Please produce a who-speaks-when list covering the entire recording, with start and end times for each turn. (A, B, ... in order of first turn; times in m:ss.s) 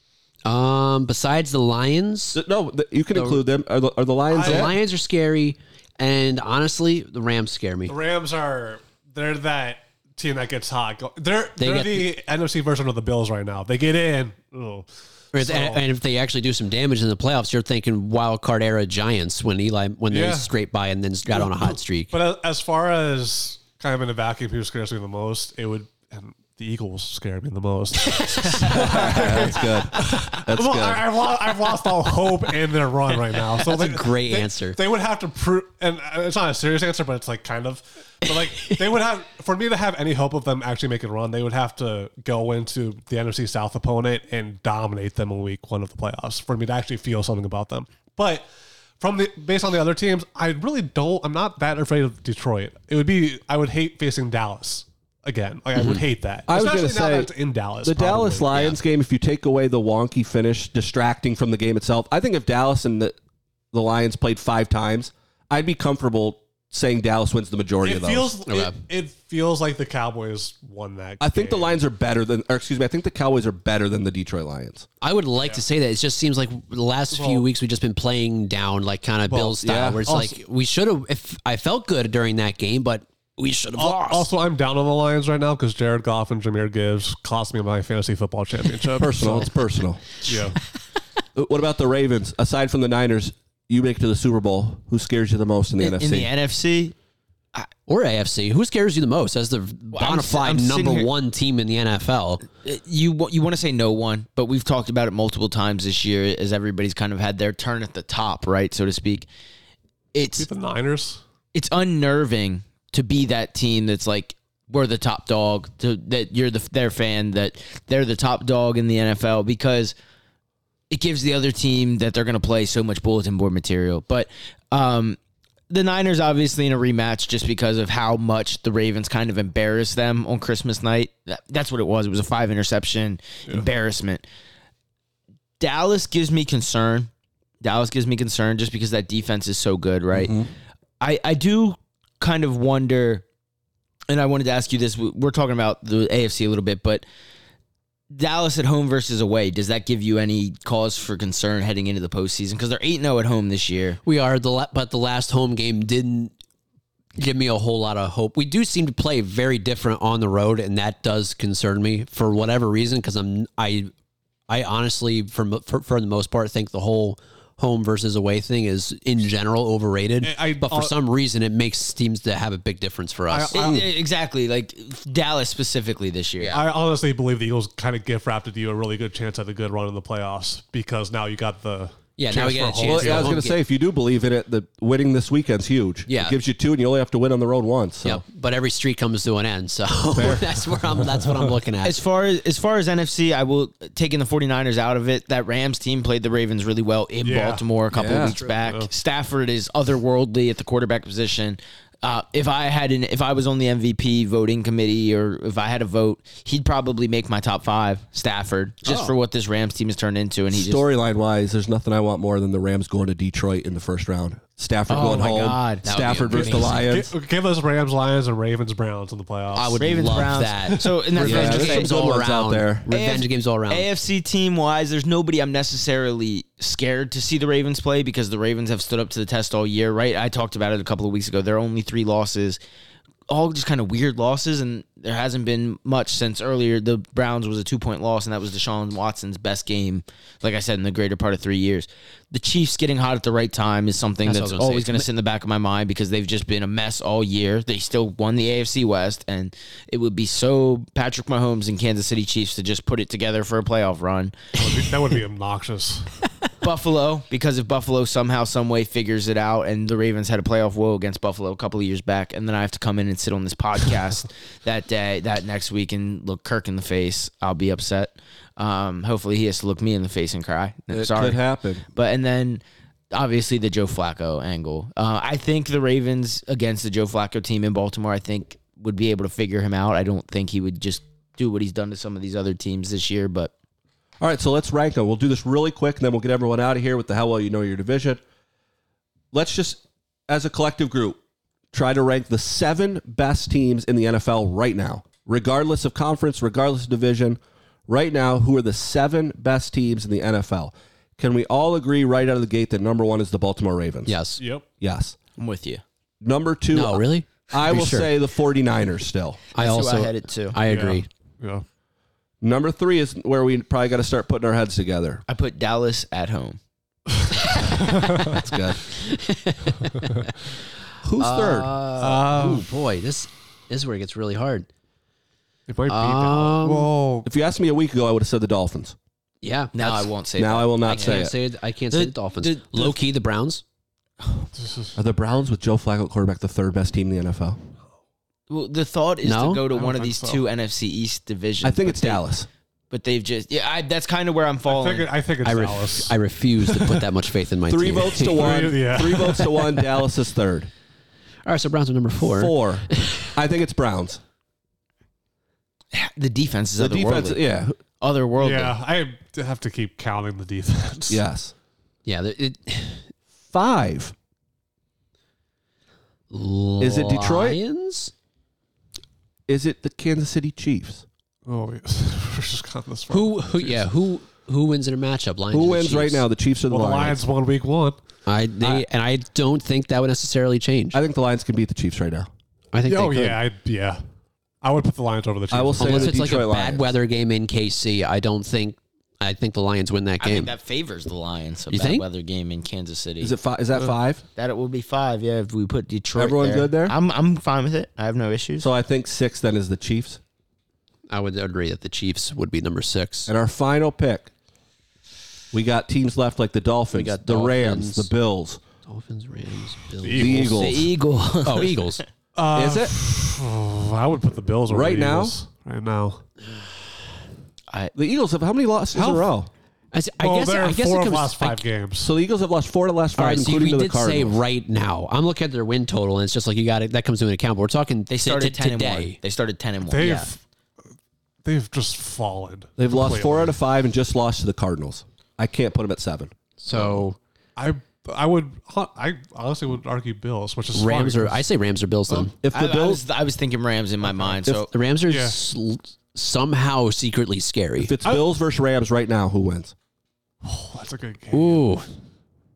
0:00.4-0:02.4 A
0:02.4-0:04.8 B
0:03.1-0:03.4 A
0:04.3-0:04.7 C
0:04.4-0:07.9 A
0:07.9-0:15.8 C
0:11.6-0:12.1 A
0:15.3-0:22.1 A
0:20.1-0:20.5 C
0:21.3-0:48.5 C
0:28.6-0:29.1 A
0:28.7-0:31.0 B
0:33.5-0:34.8 A
0:49.0-0:58.7 C
0:55.8-0:56.0 A
0:56.5-0:57.3 B
0:57.8-1:03.2 B
1:03.7-1:08.3 B
1:07.8-1:11.8 C
1:08.5-1:08.8 A
1:11.2-1:14.9 B
1:15.0-1:24.3 A
1:15.4-1:15.6 C
1:17.1-1:17.5 C
1:19.3-1:20.4 C
1:19.6-1:20.1 B
1:23.8-1:29.5 C
1:29.0-1:30.0 B
1:30.2-1:30.6 C
1:31.4-1:36.3 B
1:35.8-1:37.0 D
1:37.9-1:42.4 A
1:39.9-1:41.1 D
1:42.6-1:49.3 D
1:50.1-1:50.5 D
1:50.4-1:51.2 C
1:51.5-2:00.0 D
2:00.9-2:05.2 D
2:05.7-2:14.2 D
2:15.6-2:17.1 D
2:17.6-2:20.4 D
2:20.1-2:20.5 B
2:21.0-2:23.3 D
2:24.1-2:27.0 D
2:28.1-2:34.0 D
2:34.0-2:36.3 A
2:37.2-2:43.9 A
2:44.5-2:53.8 A
2:50.2-2:50.9 C
2:53.3-2:53.8 C
2:53.5-2:56.6 D
2:56.5-3:03.4 C
3:02.2-3:03.6 A
3:02.8-3:08.2 B
3:06.1-3:06.4 A
3:08.0-3:12.0 A
3:10.1-3:10.5 B
3:11.2-3:11.5 C
3:11.8-3:30.8 D
3:17.2-3:17.6 C
3:17.9-3:18.4 B
3:18.1-3:18.5 A
3:28.8-3:29.2 A
3:30.5-3:37.1 B
3:34.9-3:36.8 D
3:35.8-3:36.8 A
3:36.6-3:40.9 C
3:39.5-3:43.9 A
3:39.8-3:42.2 D
3:41.2-3:42.9 B
3:42.9-3:52.6 D
3:53.3-4:14.3 D
4:04.2-4:05.1 A
4:14.6-4:16.2 C
4:16.6-4:31.4 D
4:30.9-4:31.8 B
4:31.9-4:43.5 D
4:44.2-4:48.2 B
4:49.3-4:51.2 B
4:51.7-5:04.2 B
5:04.1-5:04.4 A
5:04.4-5:04.6 C
5:04.8-5:05.2 B
5:05.4-5:05.8 D
5:06.2-5:09.4 B
5:06.7-5:08.1 A
5:09.6-5:10.6 D
5:09.6-5:11.1 A
5:10.6-5:11.6 C
5:12.4-5:15.2 B
5:15.3-5:16.6 D
5:17.5-5:18.4 C
5:18.2-5:18.9 B
5:19.0-5:20.3 A
5:20.0-5:20.3 C
5:21.0-5:21.7 B
5:21.2-5:24.7 A
5:22.0-5:22.7 C
5:25.7-5:27.3 C
5:25.9-5:26.9 A
5:27.2-5:29.0 B
5:29.4-5:30.1 A
5:29.7-5:31.3 D
5:30.4-5:31.3 B
5:30.8-5:33.6 A
5:31.9-5:33.0 D
5:34.6-5:35.0 C
5:35.0-5:37.6 B
5:38.5-5:42.2 D
5:39.2-5:39.7 A
5:39.7-5:40.4 C
5:41.6-5:42.5 B
5:42.9-5:45.1 D
5:44.7-5:47.0 C
5:45.4-5:50.0 A
5:47.7-5:50.7 B
5:48.2-5:49.6 C
5:51.4-5:53.3 A
5:52.2-5:54.2 B
5:55.9-5:57.4 D
5:56.8-5:57.8 B
5:58.0-5:58.7 D
5:58.4-6:01.2 C
6:01.1-6:01.5 B
6:02.0-6:03.1 A
6:03.5-6:04.1 B
6:06.3-6:08.1 A
6:06.8-6:07.6 B
6:09.5-6:11.1 B
6:11.5-6:13.9 C
6:13.1-6:16.2 A
6:15.5-6:17.2 B
6:16.7-6:18.0 C
6:18.3-6:21.0 A
6:20.9-6:22.3 B
6:22.7-6:23.4 A
6:22.9-6:24.0 C
6:24.6-6:26.2 C
6:25.5-6:26.9 B
6:25.8-6:30.5 A
6:30.2-6:33.4 D
6:31.7-6:32.0 A
6:33.2-6:34.2 B
6:34.4-6:38.7 D
6:36.2-6:37.0 B
6:38.6-6:40.2 B
6:41.1-6:43.3 A
6:43.3-6:44.3 B
6:45.5-6:48.6 B
6:46.9-6:48.1 A
6:48.9-6:50.4 A
6:50.0-6:50.7 C
6:50.1-6:50.9 B
6:50.5-6:52.0 D
6:51.4-6:52.0 A
6:52.4-6:56.2 C
6:52.5-6:52.9 B
6:54.7-6:55.4 B
6:57.9-6:59.5 B
6:58.9-6:59.3 C
6:59.9-7:01.6 A
7:00.2-7:02.1 C
7:02.0-7:04.4 B
7:03.2-7:09.2 A
7:08.1-7:10.3 D
7:09.9-7:10.4 C
7:11.4-7:13.6 C
7:12.8-7:17.0 B
7:16.6-7:17.2 A
7:17.6-7:21.4 C
7:20.7-7:22.3 A
7:22.1-7:24.7 D
7:22.4-7:23.0 B
7:24.0-7:24.4 C
7:24.5-7:27.9 A
7:25.1-7:25.4 C
7:27.8-7:29.8 B
7:30.4-7:31.8 C
7:31.3-7:31.9 A